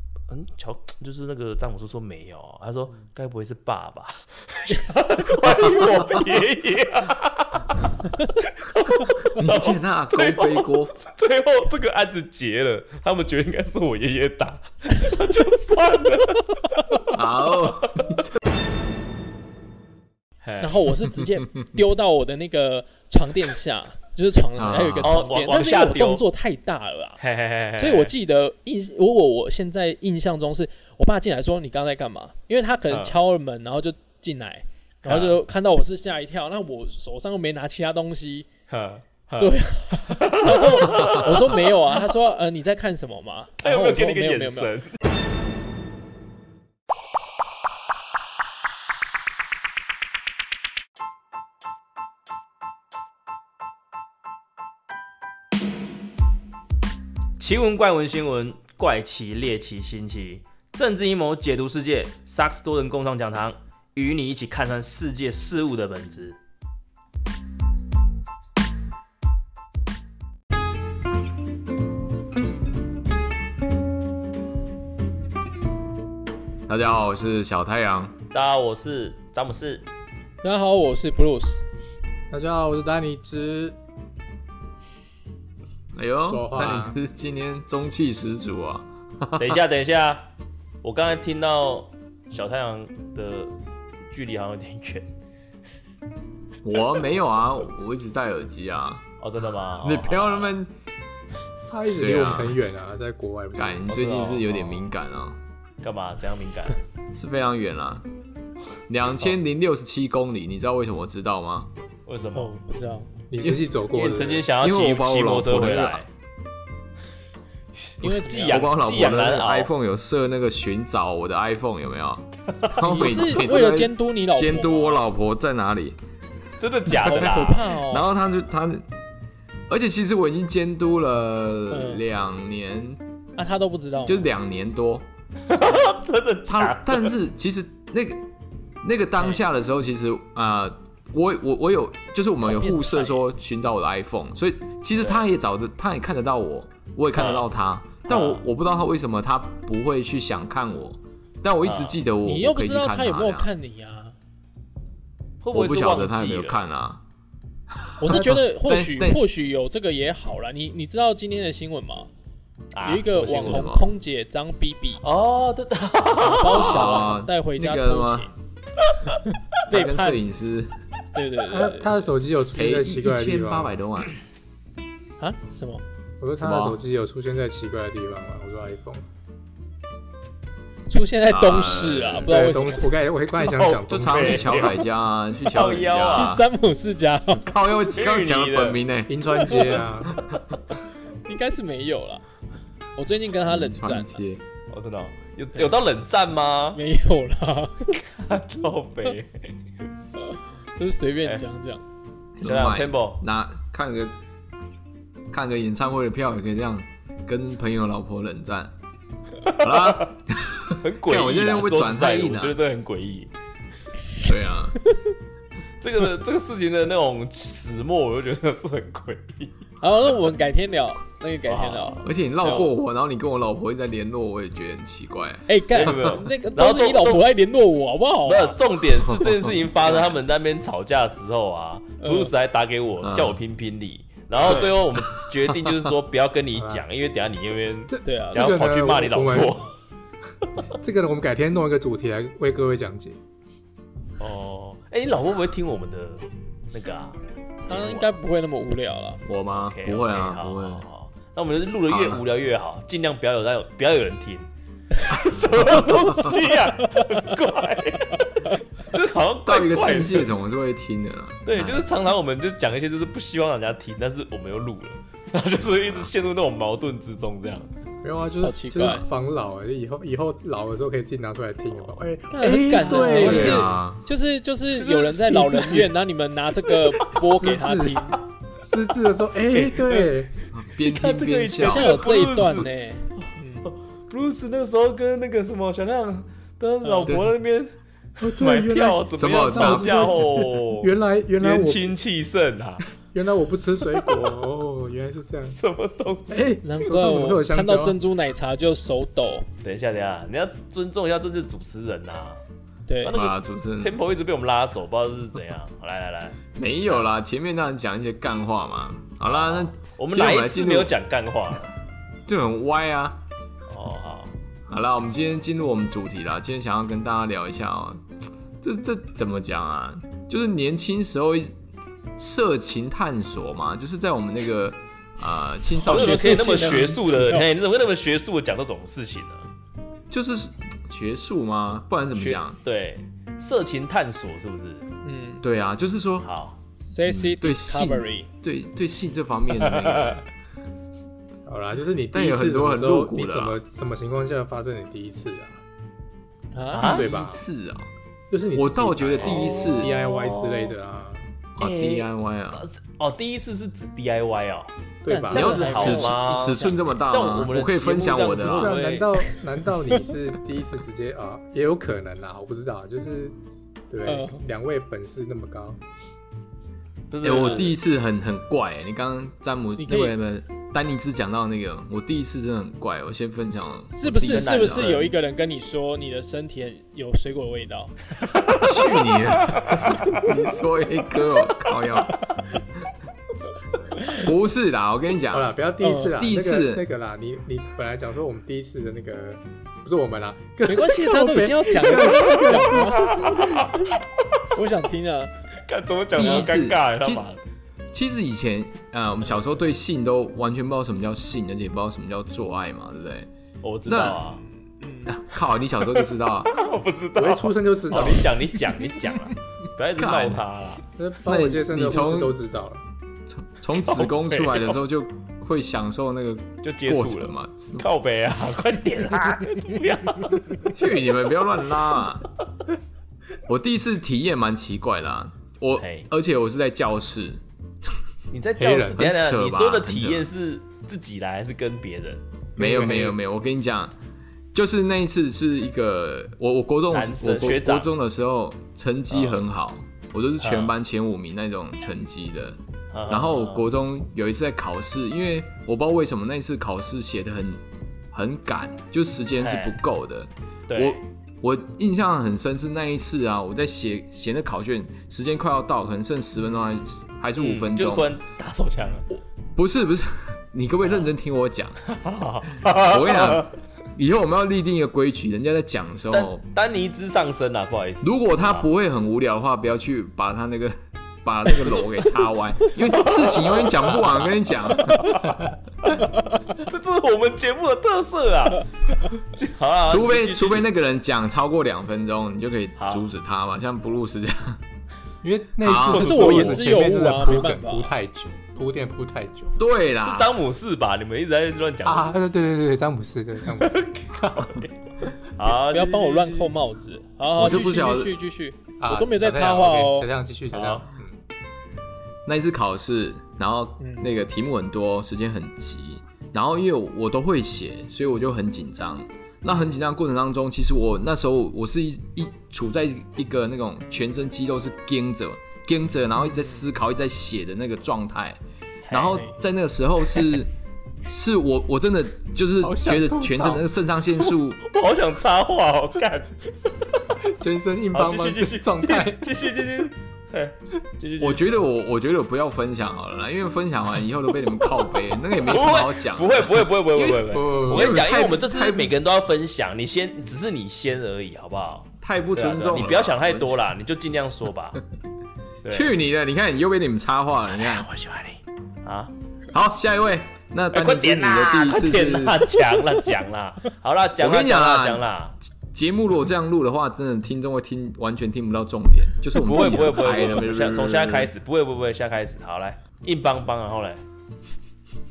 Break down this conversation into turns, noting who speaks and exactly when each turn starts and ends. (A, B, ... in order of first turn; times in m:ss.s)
0:00.3-0:18.2 A
0:09.4-0:10.9 B
0:17.1-0:18.3 B
0:20.4-0:20.7 A
0:20.6-0:27.2 C
0:24.6-0:25.2 B
0:25.0-0:26.2 A
0:27.2-0:28.1 A
0:27.8-0:38.5 C
0:32.9-0:33.2 A
0:35.0-0:35.4 A
0:38.7-0:39.5 A
0:39.4-0:44.7 C
0:40.1-0:41.9 A
0:43.6-0:44.9 A
0:57.4-1:06.4 A
1:16.7-1:18.2 B
1:18.3-1:19.8 A
1:20.4-1:21.6 C
1:22.3-1:23.8 D
1:25.9-1:29.6 B
1:26.2-1:27.0 D
1:29.4-1:30.3 A
1:30.8-1:33.5 A
1:34.1-1:35.1 A
1:36.6-1:39.0 B
1:39.2-1:40.6 A
1:39.8-1:40.7 B
1:41.7-1:43.9 D
1:41.9-1:42.6 B
1:43.6-1:45.4 B
1:43.9-1:44.9 A
1:45.8-1:46.8 A
1:47.1-1:48.0 B
1:48.9-1:51.7 B
1:52.1-1:52.5 A
1:52.3-1:53.1 C
1:53.3-1:54.4 D
1:53.9-1:56.1 A
1:54.6-1:56.0 B
1:57.8-1:59.7 A
1:58.0-1:58.7 C
1:58.5-2:06.0 B
2:02.6-2:03.2 A
2:02.8-2:05.0 C
2:06.6-2:07.7 A
2:06.9-2:08.1 C
2:07.9-2:08.8 B
2:09.7-2:13.0 B
2:11.7-2:12.0 C
2:13.4-2:14.3 C
2:14.0-2:15.0 B
2:15.4-2:17.1 A
2:16.5-2:18.2 B
2:18.8-2:33.5 B
2:22.4-2:23.2 C
2:27.2-2:27.4 A
2:28.1-2:28.4 A
2:31.6-2:32.0 A
2:32.2-2:34.1 C
2:35.4-2:36.6 A
2:35.5-2:37.0 B
2:37.7-2:39.2 B
2:38.0-2:42.1 C
2:42.7-2:43.7 A
2:42.8-2:45.0 C
2:43.3-2:43.8 B
2:45.0-2:47.1 A
2:46.2-2:48.3 C
2:46.5-2:48.3 B
2:49.1-2:50.2 C
2:49.7-2:50.7 B
2:51.1-2:52.0 C
2:51.4-2:53.7 D
2:52.5-2:54.1 B
2:55.2-2:55.8 C
2:56.2-2:59.0 D
2:56.4-2:56.8 B
3:00.9-3:02.9 C
3:01.3-3:02.3 B
3:02.3-3:04.7 D
3:03.4-3:06.4 B
3:03.4-3:04.8 A
3:05.5-3:06.3 A
3:06.1-3:07.4 C
3:07.2-3:09.5 B
3:07.9-3:08.8 A
3:09.1-3:10.2 D
3:09.4-3:09.8 C
3:11.2-3:12.2 C
3:13.0-3:14.2 C
3:13.5-3:14.4 B
3:14.7-3:16.8 A
3:16.7-3:17.9 C
3:17.9-3:19.5 A
3:20.3-3:21.8 C
3:22.4-3:24.2 B
3:22.4-3:23.2 A
3:25.3-3:28.7 B
3:29.4-3:30.1 A
3:29.6-3:32.6 B
3:30.8-3:33.3 A
3:34.2-3:34.8 B
3:35.8-3:39.6 A
3:39.8-3:42.7 C
3:41.5-3:42.0 A
3:42.0-3:46.2 B
3:45.5-3:48.6 C
3:45.7-3:47.2 A
3:48.2-3:59.7 A
3:52.0-3:52.3 C
3:53.0-3:53.4 B
3:54.4-3:54.7 C
3:55.0-3:55.9 B
3:56.6-3:56.8 D
3:57.7-3:59.6 D
3:58.0-3:58.5 C
4:00.8-4:03.2 D
4:04.2-4:08.1 A
4:07.7-4:09.2 C
4:09.2-4:10.8 B
4:09.7-4:20.3 A
4:11.9-4:12.2 B
4:15.7-4:16.3 B
4:19.4-4:21.8 B
4:21.4-4:27.7 A
4:28.0-4:33.7 D
4:28.4-4:29.0 C
4:32.3-4:38.2 C
4:32.4-4:33.7 A
4:33.2-4:34.0 B
4:34.7-4:35.9 A
4:36.6-4:37.8 A
4:37.2-4:40.3 D
4:39.5-4:42.7 A
4:40.5-4:42.0 B
4:41.6-4:43.7 C
4:43.6-4:52.8 A
4:46.8-4:47.1 C
4:47.0-4:47.3 B
4:48.2-4:51.9 D
4:49.1-4:50.2 B
4:53.1-4:55.5 D
4:54.0-4:54.4 A
4:55.4-4:56.5 A
4:56.3-4:58.0 D
4:56.6-4:59.5 C
4:59.6-5:02.4 A
5:02.9-5:03.2 C
5:03.0-5:07.0 A
5:03.1-5:04.0 B
5:06.6-5:10.9 B
5:09.2-5:11.7 A
5:12.3-5:13.2 B
5:13.7-5:14.3 A
5:14.7-5:18.1 B
5:18.6-5:21.5 B
5:22.2-5:26.9 B
5:25.8-5:27.5 C
5:25.8-5:29.5 A
5:30.1-5:32.6 B
5:32.1-5:34.9 A
5:35.0-5:35.4 C
5:35.4-5:36.3 B
5:36.2-5:36.6 A
5:36.8-5:38.3 C
5:37.0-5:40.2 B
5:39.8-5:40.1 A
5:41.4-5:45.6 D
5:42.1-5:43.6 B
5:46.5-5:47.0 C
5:46.7-5:47.1 A
5:46.8-5:47.4 D
5:47.0-5:47.9 B
5:48.3-5:51.3 D
5:48.5-5:49.9 B
5:49.2-5:50.7 A
5:51.6-5:52.6 B
5:51.6-5:54.7 A
5:55.0-5:55.6 D
5:55.1-5:56.8 C
5:55.3-5:58.8 B
5:55.3-5:59.3 A
5:58.4-6:03.4 D
6:03.9-6:05.8 D
6:04.0-6:04.3 C
6:07.1-6:07.8 A
6:07.2-6:14.9 B
6:09.8-6:10.1 C
6:13.9-6:17.9 C
6:14.1-6:15.1 A
6:18.2-6:20.2 A
6:18.6-6:22.2 B
6:24.0-6:24.2 C
6:24.1-6:25.5 B
6:25.3-6:33.6 D
6:25.8-6:26.2 C
6:26.2-6:26.8 B
6:30.6-6:33.2 C
6:31.8-6:34.0 A
6:34.5-6:35.3 C
6:35.6-6:37.4 A
6:36.1-6:37.2 B
6:37.9-6:43.3 B
6:43.6-6:44.4 A
6:43.8-6:44.2 B
6:44.4-6:45.1 C
6:45.0-6:46.5 B
6:45.9-6:50.8 A
6:47.1-6:49.0 D
6:49.9-6:50.4 B
6:51.0-6:52.8 D
6:51.2-6:52.3 B
6:53.3-6:57.9 B
6:53.8-6:54.8 A
6:56.6-7:00.7 A
7:00.7-7:02.3 B
7:03.5-7:07.9 B
7:05.8-7:06.1 A
7:08.3-7:12.2 A
7:08.6-7:09.0 D
7:08.9-7:10.3 B
7:12.6-7:13.2 D
7:12.6-7:13.9 B
7:14.5-7:38.1 B
7:16.9-7:17.9 A
7:19.1-7:19.4 A
7:20.4-7:20.7 A
7:22.9-7:23.7 A
7:29.4-7:29.8 A
7:30.7-7:31.0 A
7:37.4-7:39.1 A
7:39.1-7:41.8 B
7:40.8-7:41.1 A
7:41.8-7:43.5 A
7:42.7-7:46.4 B
7:46.1-7:48.7 A
7:48.0-7:55.3 B
7:53.0-7:54.1 A
7:54.9-8:00.6 A
7:59.9-8:04.6 B
8:02.8-8:03.1 A
8:05.2-8:09.5 D
8:05.6-8:06.2 B
8:05.7-8:06.6 A
8:05.8-8:07.9 C
8:09.6-8:10.3 B
8:10.0-8:12.2 A
8:11.8-8:14.7 D
8:13.5-8:16.5 A
8:15.5-8:20.1 C
8:17.4-8:18.1 B
8:18.8-8:21.1 D
8:20.5-8:20.8 A
8:22.2-8:38.4 B
8:23.8-8:24.0 C
8:36.2-8:36.6 C
8:38.8-8:39.2 A
8:38.9-8:40.5 B
8:41.0-8:44.6 B
8:42.6-8:43.6 D
8:44.6-8:46.5 A
8:47.4-8:49.2 D
8:47.9-8:51.5 A
8:51.2-8:56.7 B
8:55.4-9:04.8 A
8:57.0-8:58.0 D
8:57.7-8:58.9 B
9:02.0-9:03.6 B
9:05.6-9:05.9 A
9:05.7-9:07.9 B
9:07.5-9:09.1 A
9:09.5-9:12.5 B
9:10.7-9:15.4 A
9:14.2-9:15.0 B
9:15.7-9:21.3 B
9:19.3-9:24.0 A